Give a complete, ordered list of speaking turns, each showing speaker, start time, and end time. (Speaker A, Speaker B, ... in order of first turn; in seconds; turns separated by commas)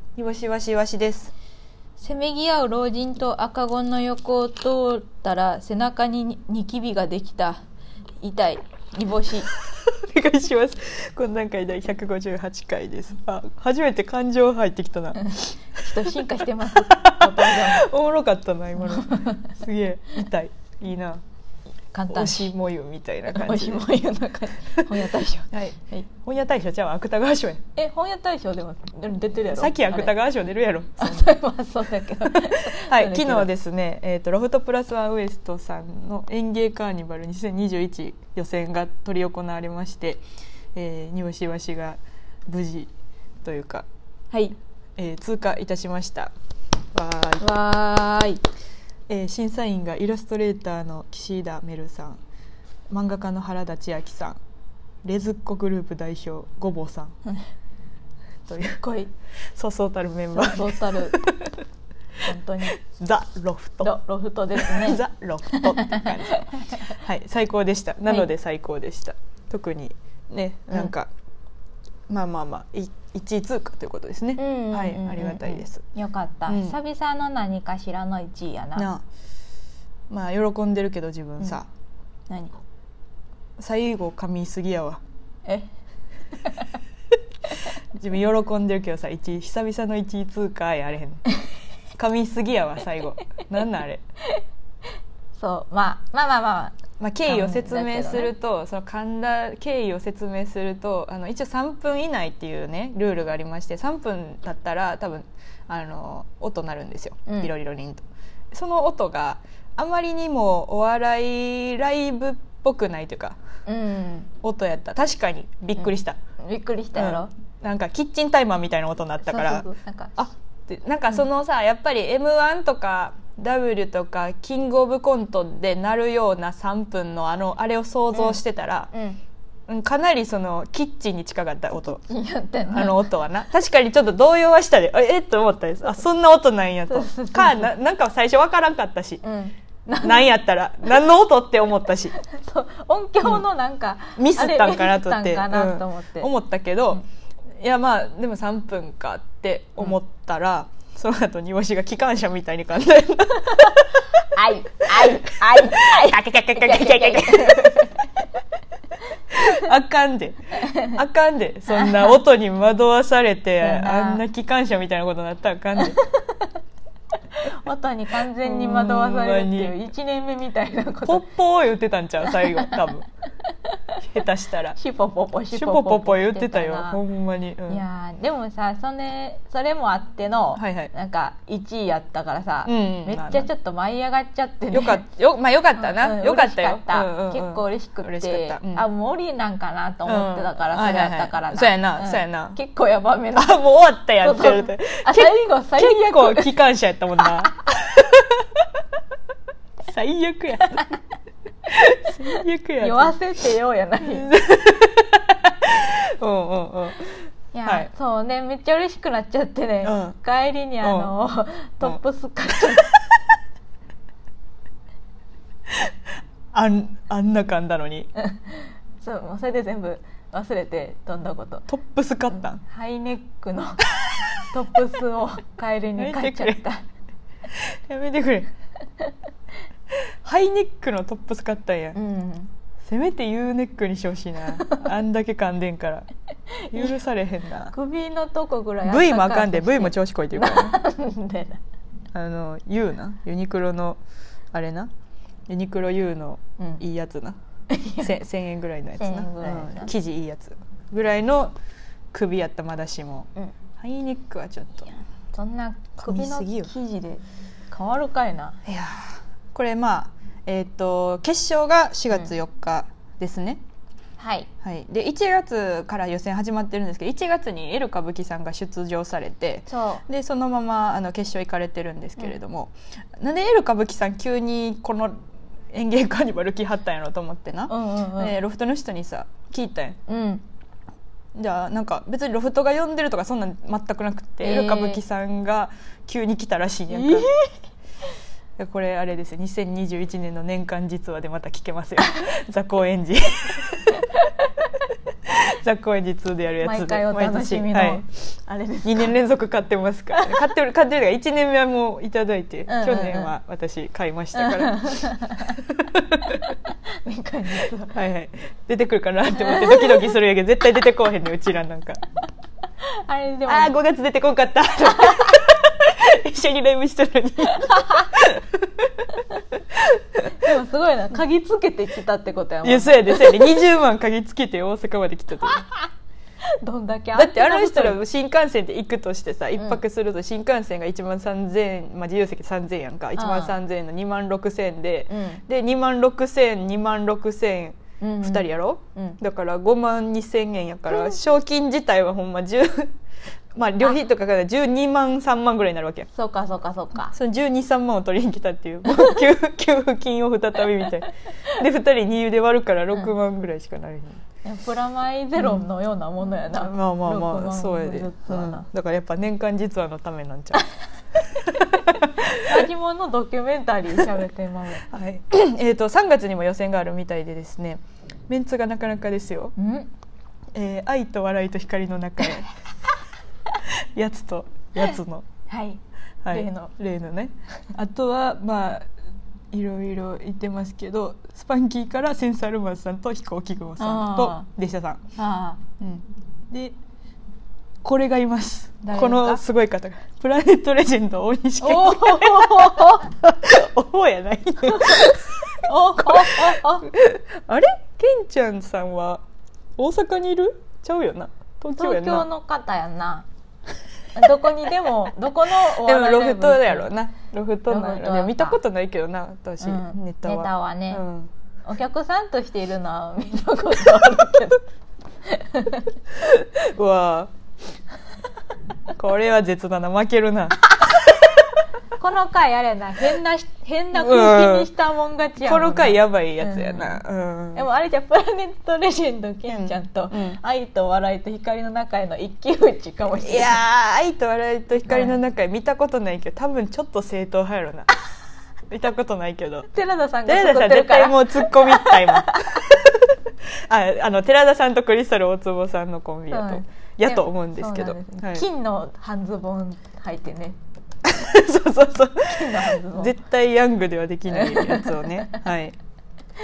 Speaker A: 0.2-1.3, Speaker B: 2.0-7.6, Speaker B: 8.2-9.5, Speaker A: 9.7-15.8, Speaker B: 15.2-17.9, Speaker A: 16.8-21.2, Speaker B: 18.9-19.4, Speaker B: 21.9-22.5, Speaker A: 22.1-23.9, Speaker B: 23.3-26.1, Speaker A: 25.5-27.6, Speaker B: 27.8-30.1, Speaker A: 29.6-31.3, Speaker B: 31.0-33.5, Speaker A: 32.3-40.2, Speaker A: 40.8-42.9, Speaker A: 43.4-46.3, Speaker A: 46.9-47.5, Speaker B: 47.4-48.4, Speaker A: 49.1-52.2, Speaker A: 52.9-54.4, Speaker A: 55.0-57.1, Speaker A: 58.5-58.8, Speaker B: 58.8-59.1, Speaker A: 59.5-61.6, Speaker B: 60.3-61.2, Speaker B: 62.3-62.8, Speaker A: 62.8-64.0, Speaker B: 63.8-65.0, Speaker A: 64.6-71.1, Speaker B: 65.5-66.9, Speaker A: 72.1-75.8, Speaker B: 74.4-78.9, Speaker A: 76.5-76.8, Speaker A: 78.8-79.0, Speaker A: 80.1-81.7, Speaker B: 82.3-82.6, Speaker A: 83.6-85.0, Speaker B: 85.5-85.7, Speaker B: 86.4-86.7, Speaker A: 88.0-91.2, Speaker A: 92.0-94.0, Speaker B: 95.4-98.3, Speaker A: 97.0-113.4, Speaker B: 113.7-114.3, Speaker A: 114.4-116.2, Speaker B: 116.4-117.3, Speaker A: 117.0-128.9, Speaker B: 119.2-120.2, Speaker B: 128.9-129.2, Speaker A: 129.7-132.1, Speaker B: 132.1-133.1, Speaker A: 132.7-139.2, Speaker B: 136.9-137.7, Speaker B: 139.2-140.4, Speaker A: 140.0-142.2, Speaker B: 142.2-146.3, Speaker A: 144.2-147.0, Speaker A: 147.6-154.3, Speaker B: 154.3-158.2, Speaker A: 155.0-157.9, Speaker A: 159.3-166.0, Speaker B: 160.7-160.9, Speaker B: 161.7-162.2, Speaker B: 163.6-164.2, Speaker B: 165.9-166.4, Speaker B: 167.4-171.2, Speaker A: 168.4-169.7, Speaker A: 171.1-173.1, Speaker B: 172.3-172.7, Speaker A: 174.0-174.8, Speaker B: 174.8-177.0, Speaker A: 175.5-177.8, Speaker B: 177.7-185.0, Speaker A: 180.6-180.9, Speaker A: 182.7-183.5, Speaker A: 184.7-188.9, Speaker B: 185.8-193.6, Speaker A: 190.1-192.6, Speaker A: 193.3-198.4, Speaker B: 194.2-196.6, Speaker A: 199.8-200.9, Speaker A: 201.7-203.2, Speaker B: 202.8-204.3, Speaker A: 204.1-207.9, Speaker B: 207.5-212.9, Speaker A: 209.8-210.2, Speaker A: 210.8-211.1, Speaker A: 216.5-218.1, Speaker B: 218.2-221.7, Speaker A: 221.7-222.6, Speaker B: 222.6-223.8, Speaker B: 224.5-226.8, Speaker A: 226.0-226.6, Speaker A: 227.5-228.5, Speaker A: 230.2-232.0, Speaker B: 231.9-232.5, Speaker A: 232.8-236.1, Speaker B: 234.6-234.9, Speaker A: 236.7-237.7, Speaker B: 237.7-241.6, Speaker A: 238.8-240.8, Speaker A: 242.2-244.0, Speaker A: 244.5-244.9, Speaker A: 245.5-247.4, Speaker B: 247.7-248.1, Speaker A: 248.0-251.5, Speaker B: 249.0-249.9, Speaker A: 252.1-254.9, Speaker B: 255.3-258.6, Speaker A: 256.0-256.7, Speaker A: 258.7-263.6, Speaker B: 264.2-264.5, Speaker A: 264.6-275.1, Speaker B: 269.7-270.1, Speaker A: 275.7-280.0, Speaker B: 277.7-278.4, Speaker B: 280.1-280.4, Speaker A: 281.4-287.3, Speaker B: 284.4-285.0, Speaker B: 286.9-287.6, Speaker A: 288.6-294.0, Speaker A: 295.3-298.0, Speaker B: 296.6-299.2, Speaker A: 298.8-306.5, Speaker B: 300.1-300.4, Speaker B: 302.7-303.3, Speaker B: 304.3-305.6, Speaker B: 306.7-308.0, Speaker A: 307.9-312.0, Speaker B: 309.4-310.1, Speaker B: 312.9-313.7, Speaker A: 313.5-320.4, Speaker B: 314.9-315.3, Speaker B: 317.6-317.9, Speaker B: 320.4-323.7, Speaker A: 322.6-325.7, Speaker B: 326.4-328.0, Speaker A: 327.1-342.9, Speaker B: 333.2-333.6, Speaker B: 335.1-335.4, Speaker B: 338.0-339.2, Speaker A: 343.6-346.1, Speaker B: 346.1-347.1, Speaker A: 347.1-354.2, Speaker B: 354.4-358.7, Speaker A: 355.4-355.7, Speaker A: 356.5-362.5, Speaker B: 362.3-364.9, Speaker A: 364.9-369.6, Speaker B: 369.6-369.9, Speaker A: 370.6-372.5, Speaker A: 373.6-375.3, Speaker B: 375.5-376.7, Speaker A: 376.2-378.9, Speaker A: 379.5-385.0, Speaker B: 383.8-384.5, Speaker B: 385.2-385.6, Speaker A: 385.8-386.7, Speaker A: 387.8-399.2, Speaker B: 388.9-389.4, Speaker B: 391.6-393.1, Speaker B: 394.6-396.9, Speaker A: 399.8-402.3, Speaker B: 401.8-403.3, Speaker B: 404.1-406.9, Speaker A: 405.8-411.3, Speaker B: 407.7-408.6, Speaker B: 409.6-411.0, Speaker B: 411.6-414.6, Speaker B: 415.3-415.9, Speaker A: 416.2-417.3, Speaker A: 418.9-421.4, Speaker B: 422.0-427.0, Speaker A: 423.9-424.7, Speaker A: 425.4-427.7, Speaker B: 427.5-433.6, Speaker A: 429.5-430.4, Speaker A: 433.2-437.9, Speaker B: 434.9-435.2, Speaker A: 438.7-439.7, Speaker B: 439.7-442.7, Speaker A: 440.2-443.0, Speaker A: 443.7-448.5, Speaker B: 446.3-450.6, Speaker A: 451.0-455.8, Speaker B: 452.3-453.1, Speaker B: 454.3-455.4